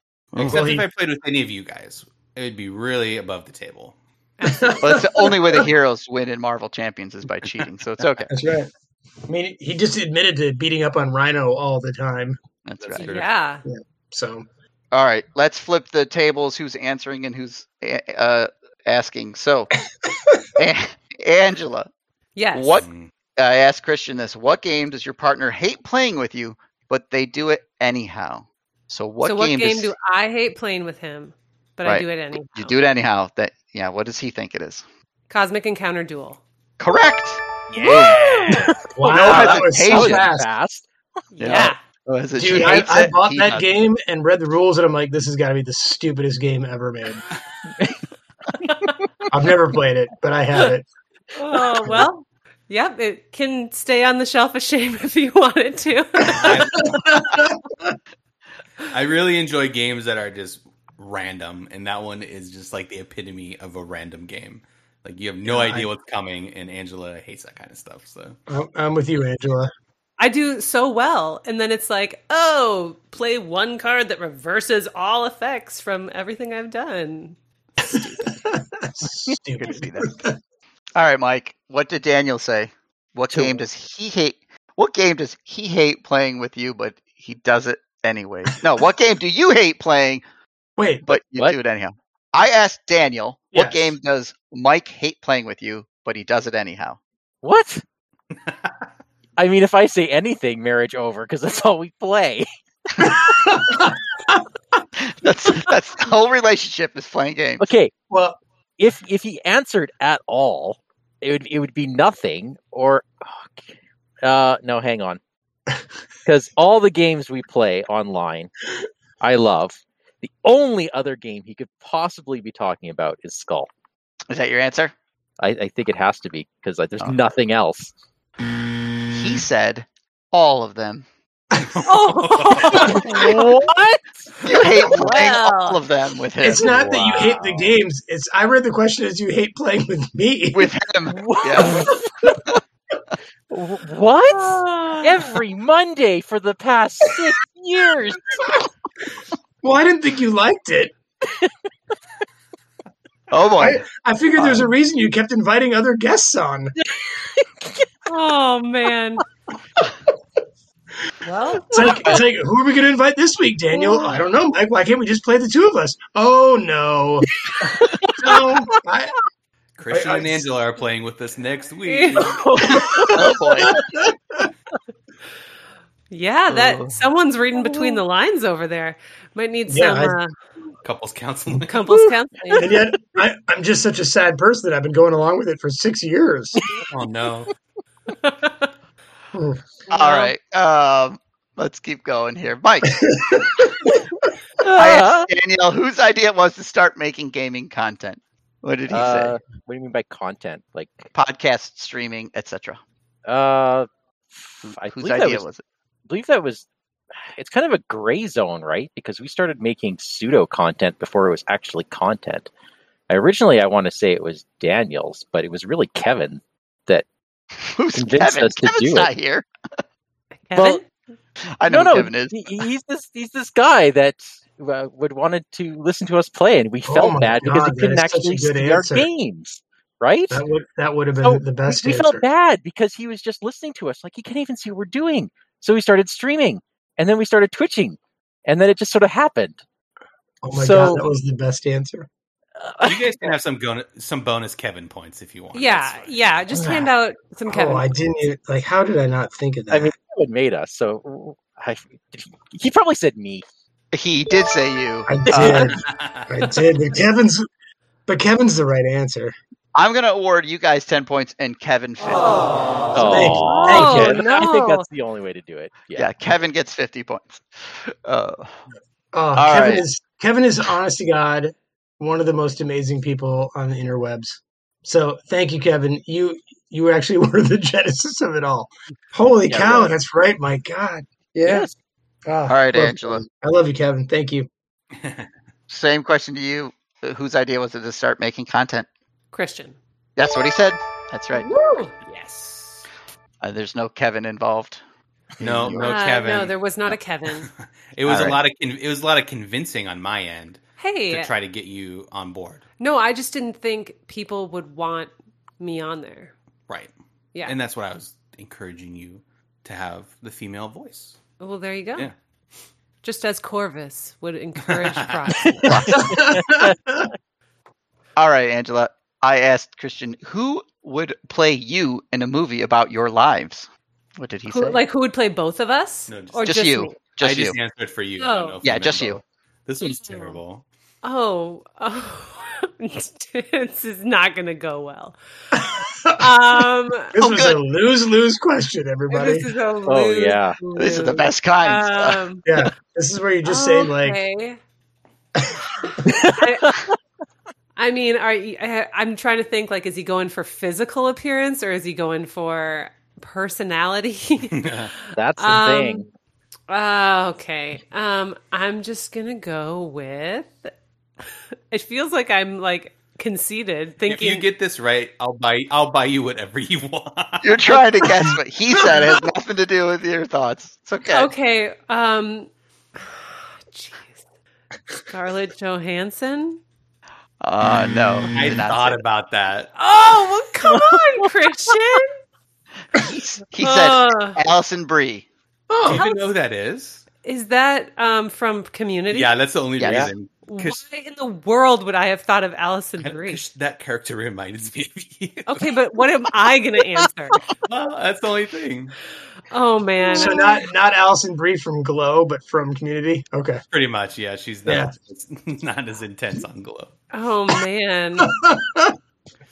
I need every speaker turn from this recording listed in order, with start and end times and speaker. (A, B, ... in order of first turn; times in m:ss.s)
0:00.3-0:00.6 A
0:00.4-0:04.0 B
0:00.4-0:00.8 C
0:04.4-0:05.0 D
0:04.4-0:05.6 C
0:04.8-0:08.3 A
0:08.3-0:08.7 C
0:09.3-0:12.4 C
0:12.6-0:13.2 A
0:12.8-0:13.3 B
0:13.0-0:13.6 D
0:13.6-0:14.4 C
0:14.9-0:19.7 A
0:20.6-0:21.9 A
0:22.4-0:22.8 D
0:22.5-0:29.9 A
0:22.8-0:23.1 B
0:29.2-0:32.8 D
0:31.8-0:34.8 A
0:35.3-0:36.4 D
0:36.8-0:38.2 A
0:37.7-0:40.8 E
0:37.8-0:38.7 D
0:39.0-0:40.5 C
0:39.0-0:40.3 A
0:41.3-0:41.8 D
0:41.4-0:43.7 A
0:42.3-0:47.2 C
0:47.8-0:48.0 E
0:48.6-0:49.0 D
0:49.3-0:50.8 C
0:51.4-0:56.6 D
0:56.2-0:57.3 B
0:56.3-0:58.0 C
0:58.9-1:08.4 B
1:05.4-1:05.9 C
1:08.5-1:09.7 C
1:10.2-1:18.2 D
1:17.9-1:20.3 C
1:19.6-1:20.1 A
1:21.0-1:30.2 A
1:23.3-1:23.6 E
1:30.8-1:31.1 C
1:31.0-1:37.0 A
1:33.5-1:33.9 C
1:37.4-1:37.8 E
1:38.5-1:38.8 B
1:39.4-1:43.2 E
1:43.0-1:44.4 C
1:45.0-1:47.7 A
1:47.6-1:47.9 E
1:48.1-1:48.4 C
1:48.8-1:53.6 E
1:54.2-1:55.2 E
1:56.2-1:58.5 E
1:59.2-2:03.7 E
2:04.3-2:04.9 A
2:05.4-2:07.9 E
2:09.1-2:11.0 A
2:11.6-2:13.0 B
2:11.8-2:13.4 D
2:12.8-2:14.2 E
2:14.4-2:16.6 A
2:14.8-2:15.8 D
2:16.4-2:20.7 C
2:16.7-2:17.4 B
2:20.5-2:21.8 A
2:21.1-2:22.1 E
2:23.5-2:28.4 E
2:24.2-2:25.2 D
2:29.6-2:30.9 C
2:31.2-2:31.5 E
2:33.3-2:33.8 A
2:33.6-2:36.7 C
2:36.8-2:37.9 E
2:38.1-2:39.2 D
2:41.2-2:42.2 D
2:41.7-2:49.1 C
2:47.4-2:48.8 E
2:49.8-2:52.6 B
2:49.9-2:50.5 C
2:51.9-2:52.2 D
2:52.2-2:53.3 E
2:52.7-2:53.1 C
2:53.1-2:53.8 A
2:53.7-2:54.5 C
2:56.1-3:00.3 D
2:56.5-2:57.0 A
2:57.6-2:58.0 E
2:59.7-3:00.2 C
3:00.8-3:01.9 B
3:01.7-3:02.7 D
3:02.6-3:06.6 C
3:06.9-3:07.5 B
3:08.2-3:08.7 D
3:09.3-3:09.6 C
3:09.9-3:10.3 D
3:09.9-3:13.0 A
3:13.0-3:13.8 C
3:14.6-3:15.3 E
3:14.8-3:19.3 A
3:18.9-3:21.1 E
3:21.1-3:22.8 A
3:23.3-3:25.4 E
3:24.6-3:25.6 A
3:26.1-3:26.6 E
3:27.3-3:32.5 E
3:33.1-3:37.0 E
3:37.6-3:39.5 A
3:37.9-3:39.1 E
3:40.5-3:40.8 D
3:41.6-3:42.6 A
3:41.7-3:50.4 E
3:46.8-3:49.1 C
3:50.3-3:52.3 C
3:51.2-3:59.6 E
4:00.4-4:02.1 C
4:00.5-4:01.0 E
4:02.6-4:03.3 E
4:02.8-4:06.4 B
4:05.5-4:07.9 D
4:06.5-4:06.9 C
4:07.5-4:09.9 C
4:09.7-4:13.4 E
4:13.9-4:15.7 A
4:15.1-4:17.5 C
4:15.8-4:16.3 B
4:18.1-4:19.3 C
4:19.7-4:22.6 A
4:22.9-4:26.1 E
4:23.0-4:24.3 C
4:23.4-4:24.8 D
4:25.9-4:28.6 A
4:29.1-4:41.7 C
4:29.3-4:29.8 A
4:39.5-4:39.9 E
4:41.4-4:41.7 E
4:42.2-4:44.5 C
4:42.4-4:43.2 A
4:45.0-4:45.3 B
4:45.7-4:48.9 A
4:49.3-4:49.8 D
4:50.2-4:51.5 A
4:51.3-4:52.7 D
4:53.4-4:54.8 A
4:55.4-4:56.0 A
4:55.4-5:02.6 B
4:55.8-4:57.5 D
4:58.0-4:58.4 A
5:00.8-5:01.3 D
5:02.8-5:06.3 D
5:07.4-5:11.2 B
5:11.4-5:12.1 D
5:13.0-5:15.6 D
5:14.7-5:15.5 B
5:15.5-5:16.7 E
5:15.6-5:16.0 A
5:15.9-5:17.1 C
5:18.2-5:24.8 A
5:24.5-5:27.0 D
5:26.1-5:26.6 B
5:26.4-5:27.6 A
5:27.2-5:30.6 B
5:28.2-5:28.6 D
5:28.6-5:29.2 A
5:29.8-5:30.4 D
5:31.0-5:35.2 D
5:35.5-5:36.3 C
5:36.2-5:37.1 D
5:37.1-5:39.5 C
5:37.2-5:37.6 A
5:39.1-5:42.4 D
5:39.9-5:40.6 E
5:40.8-5:42.2 A
5:42.4-5:44.2 C
5:43.4-5:44.6 D
5:45.4-5:46.1 C
5:45.8-5:46.8 D
5:46.0-5:46.9 E
5:47.8-5:54.7 D
5:54.5-5:54.9 B
5:55.1-5:56.1 E
5:55.4-5:56.0 D
5:56.7-6:00.7 D
6:01.7-6:04.5 D
6:04.1-6:07.6 B
6:07.4-6:11.3 A
6:11.1-6:14.2 D
6:15.1-6:16.6 D
6:17.4-6:19.0 A
6:18.3-6:19.7 B
6:19.8-6:22.1 D
6:20.7-6:21.0 E
6:22.9-6:25.3 A
6:23.6-6:24.4 D
6:25.7-6:26.0 C
6:25.8-6:27.0 B
6:25.9-6:26.3 D
6:27.2-6:29.3 D
6:29.1-6:30.8 B
6:29.8-6:30.1 A
6:29.8-6:30.1 E
6:30.4-6:33.4 D
6:33.0-6:35.6 B
6:35.5-6:37.4 D
6:37.6-6:39.0 B
6:39.5-6:40.6 D
6:40.1-6:43.6 C
6:43.7-6:46.9 B
6:44.6-6:44.9 C
6:47.1-6:48.3 D
6:48.2-6:49.0 C